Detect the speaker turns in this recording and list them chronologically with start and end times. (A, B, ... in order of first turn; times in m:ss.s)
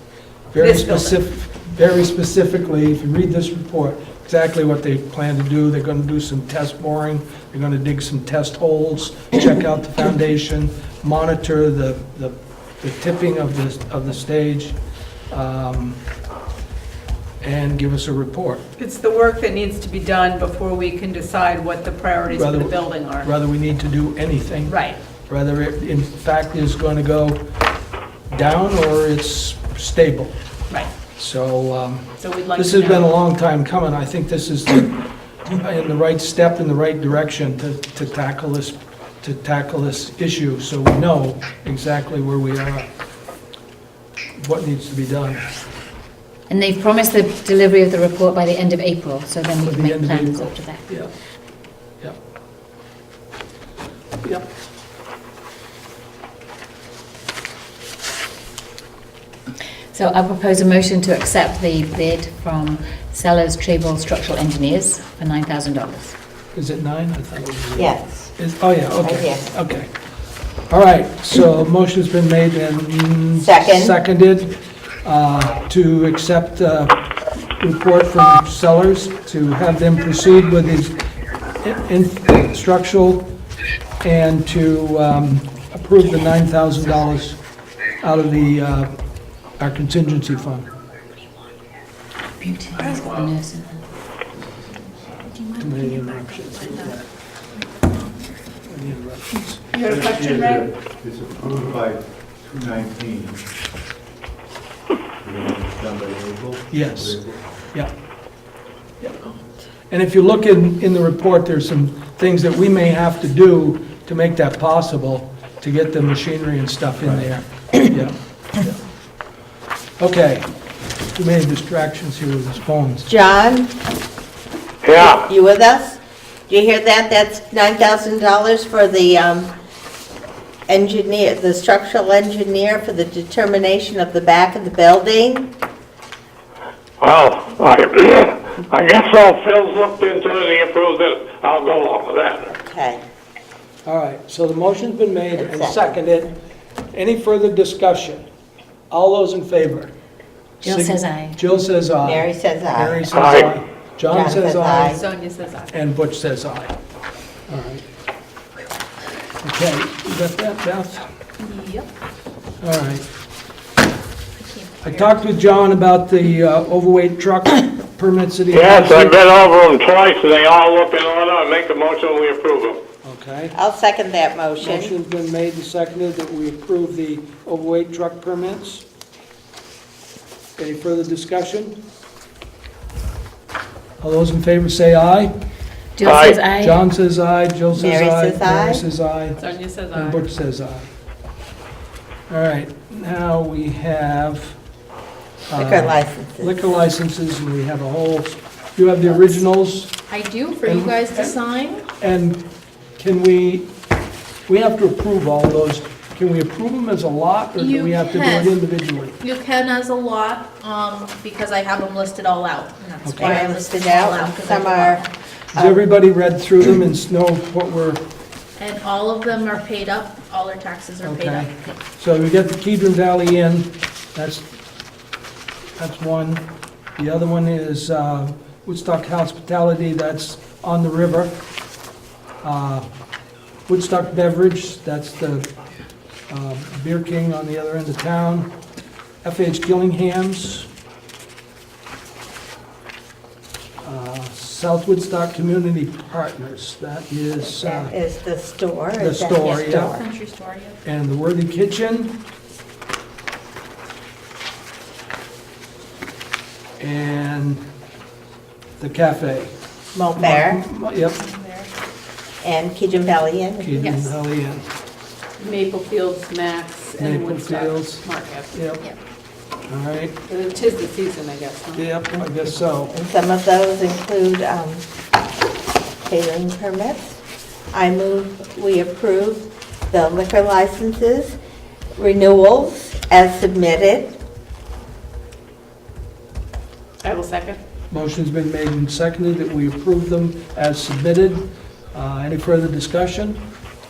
0:00.5-0:14.8 A
0:00.6-0:01.2 B
0:15.3-0:16.0 A
0:17.4-0:18.6 A
0:18.8-0:23.3 B
0:22.3-0:24.8 A
0:24.7-0:25.0 B
0:25.3-0:27.4 A
0:28.3-0:30.4 A
0:31.2-0:42.9 A
0:32.2-0:33.1 B
0:44.4-0:45.4 A
0:46.5-0:50.8 C
0:49.6-0:51.1 A
0:59.9-1:06.1 C
1:06.5-1:09.9 A
1:07.7-1:08.4 D
1:08.9-1:09.5 D
1:10.7-1:17.0 A
1:13.4-1:14.0 D
1:17.6-1:21.0 A
1:21.6-1:23.2 A
1:24.0-1:27.4 A
1:28.0-1:29.0 A
1:29.6-1:30.7 A
1:32.4-1:33.8 C
1:35.6-1:37.0 A
1:38.6-1:39.7 A
1:39.7-1:40.7 B
1:39.8-1:43.5 E
1:45.2-1:47.6 E
1:46.7-1:47.9 A
1:49.9-1:58.8 A
2:00.0-2:00.5 A
2:01.1-2:03.1 A
2:03.0-2:03.7 D
2:04.8-2:05.3 F
2:05.0-2:09.5 D
2:10.7-2:15.5 D
2:17.0-2:22.5 F
2:22.6-2:23.0 D
2:23.8-2:26.3 A
2:25.4-2:26.0 D
2:26.9-2:28.2 A
2:28.9-2:29.9 A
2:30.6-2:31.4 C
2:30.6-2:35.1 A
2:32.0-2:33.1 D
2:33.1-2:33.5 F
2:34.1-2:35.0 D
2:34.9-2:35.7 B
2:35.7-2:36.7 A
2:37.5-2:37.8 A
2:39.4-2:41.1 A
2:41.4-2:41.8 G
2:42.6-2:43.0 A
2:44.4-2:45.1 G
2:44.8-2:49.2 A
2:48.5-2:52.8 F
2:53.0-2:53.5 A
2:53.5-2:54.9 D
2:54.6-2:58.8 A
3:00.6-3:01.8 A
3:04.0-3:05.3 A
3:06.0-3:06.8 C
3:06.0-3:06.4 F
3:06.6-3:10.9 A
3:07.7-3:08.8 D
3:09.4-3:10.2 B
3:12.3-3:14.6 A
3:15.5-3:19.9 A
3:15.5-3:16.6 D
3:20.1-3:21.8 G
3:20.6-3:21.4 A
3:22.0-3:22.4 A
3:23.0-3:23.7 A
3:24.5-3:29.2 A
3:27.6-3:28.6 G
3:29.2-3:35.1 G
3:33.0-3:33.5 A
3:33.2-3:35.0 D
3:35.5-3:38.0 A
3:35.5-3:35.8 D
3:38.6-3:41.6 G
3:41.0-3:44.4 A
3:45.8-3:51.4 A
3:52.4-3:52.9 A
3:53.7-3:55.5 A
3:56.3-3:58.5 A
3:59.2-4:00.7 A
4:03.8-4:08.0 A
4:07.4-4:10.0 D
4:09.0-4:10.0 A
4:09.9-4:10.8 G
4:10.8-4:12.2 A
4:16.8-4:17.6 A
4:18.8-4:19.5 A
4:19.9-4:20.6 D
4:20.2-4:21.2 A
4:21.1-4:21.7 G
4:22.4-4:24.0 D
4:23.6-4:24.6 A
4:23.8-4:24.1 B
4:25.4-4:28.5 B
4:27.0-4:28.8 A
4:29.7-4:30.1 A
4:30.3-4:31.8 B
4:31.7-4:32.9 A
4:32.9-4:34.8 D
4:36.0-4:37.2 D
4:37.7-4:41.3 D
4:42.0-4:44.1 D
4:47.0-4:47.6 B
4:47.9-4:53.4 A